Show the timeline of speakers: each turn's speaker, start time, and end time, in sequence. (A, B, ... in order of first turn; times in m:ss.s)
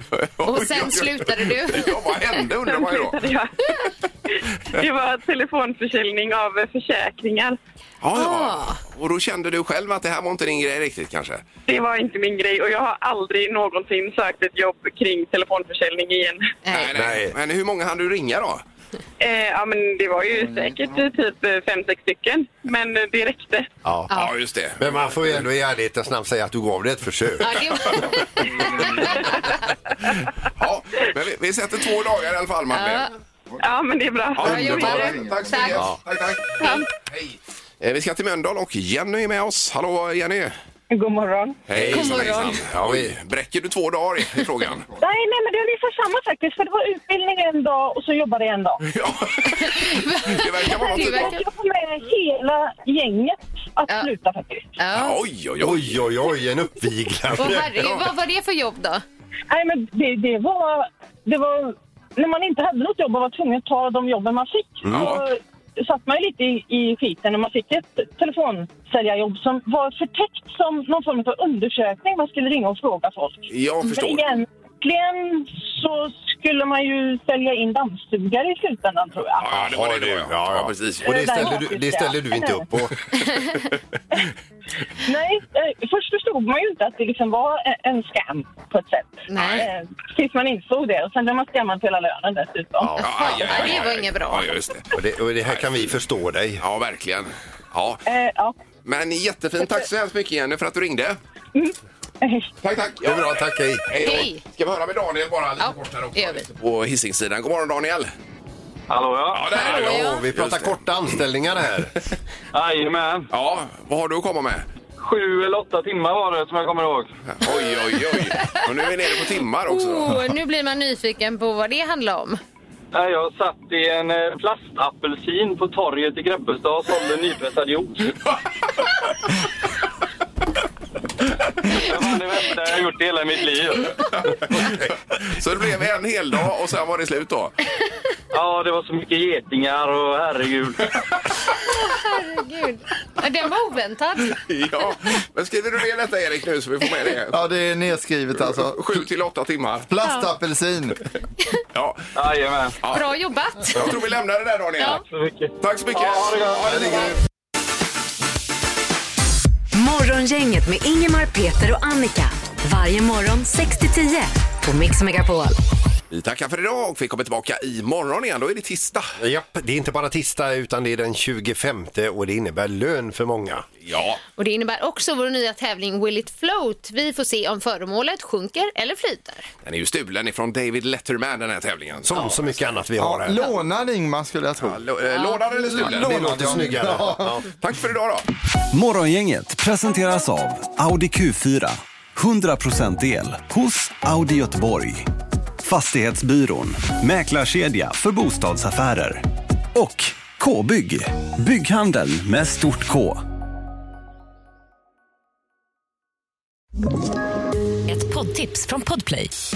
0:00.1-0:03.3 A
0:00.4-0:02.2 B
0:02.7-0:03.5 C
0:04.8-0:07.6 C
0:08.0-0:11.4 A
0:08.2-0:08.8 B
0:11.7-0:16.5 C
0:16.6-0:16.9 B
0:16.7-0:18.6 A
0:16.9-0:17.4 D
0:19.2-0:23.7 C
0:23.8-0:24.1 D
0:24.1-0:25.4 A
0:24.8-0:27.5 D
0:27.4-0:29.4 B
0:28.0-0:29.3 A
0:30.6-0:33.1 A
0:32.7-0:33.1 B
0:33.6-0:34.5 C
0:34.4-0:40.6 A
0:34.4-0:35.8 E
0:34.4-0:35.8 B
0:36.6-0:36.8 B
0:40.9-0:41.6 F
0:41.7-0:44.9 A
0:41.7-0:43.1 D
0:41.9-0:42.6 B
0:45.0-0:48.8 F
0:48.8-0:51.4 A
0:49.4-0:51.4 B
0:50.8-0:54.7 F
0:54.8-0:55.2 B
0:54.9-0:56.0 A
0:55.6-0:57.7 D
0:57.3-0:59.0 B
0:57.8-0:58.1 A
0:59.5-1:19.5 F
1:04.8-1:05.2 D
1:04.9-1:05.2 A
1:13.5-1:14.3 A
1:19.4-1:21.1 A
1:19.5-1:23.0 D
1:21.0-1:22.7 F
1:25.0-1:33.7 F
1:29.3-1:29.7 B
1:29.3-1:29.7 A
1:32.8-1:33.7 D
1:33.0-1:34.9 A
1:33.2-1:34.6 B
1:34.9-1:36.6 D
1:35.4-1:35.9 A
1:36.6-1:38.0 A
1:38.0-1:38.6 F
1:38.8-1:41.2 A
1:39.6-1:39.9 F
1:41.6-1:42.5 F
1:42.6-1:48.1 A
1:43.0-1:43.8 D
1:44.0-1:44.4 B
1:45.6-1:46.5 B
1:48.9-1:49.5 G
1:49.3-1:50.8 A
1:49.5-1:51.9 D
1:49.5-1:50.2 B
1:52.5-1:53.3 G
1:53.3-1:54.7 A
1:55.0-1:57.1 G
1:57.3-2:00.2 A
1:57.4-2:02.4 B
2:02.9-2:08.1 G
2:11.8-2:13.9 G
2:14.0-2:17.6 A
2:18.3-2:20.8 G
2:21.7-2:24.4 B
2:24.3-2:27.4 A
2:27.3-2:29.0 E
2:28.4-2:29.9 A
2:29.9-2:31.0 E
2:30.0-2:30.3 B
2:31.7-2:32.0 A
2:32.2-2:32.7 G
2:32.8-2:33.1 A
2:32.9-2:34.0 B
2:33.7-2:35.0 A
2:35.1-2:37.1 G
2:35.6-2:37.1 A
2:39.7-2:45.6 H
2:46.1-2:49.2 A
2:49.2-2:53.7 D
2:53.8-2:54.2 A
2:54.4-2:59.5 B
2:59.6-3:02.6 A
3:02.0-3:03.4 D
3:03.0-3:04.8 E
3:04.6-3:06.7 A
3:05.1-3:05.4 B
3:05.7-3:07.4 E
3:05.8-3:07.5 D
3:07.6-3:08.3 A
3:08.7-3:15.1 I
3:15.6-3:23.2 I
3:27.9-3:29.3 H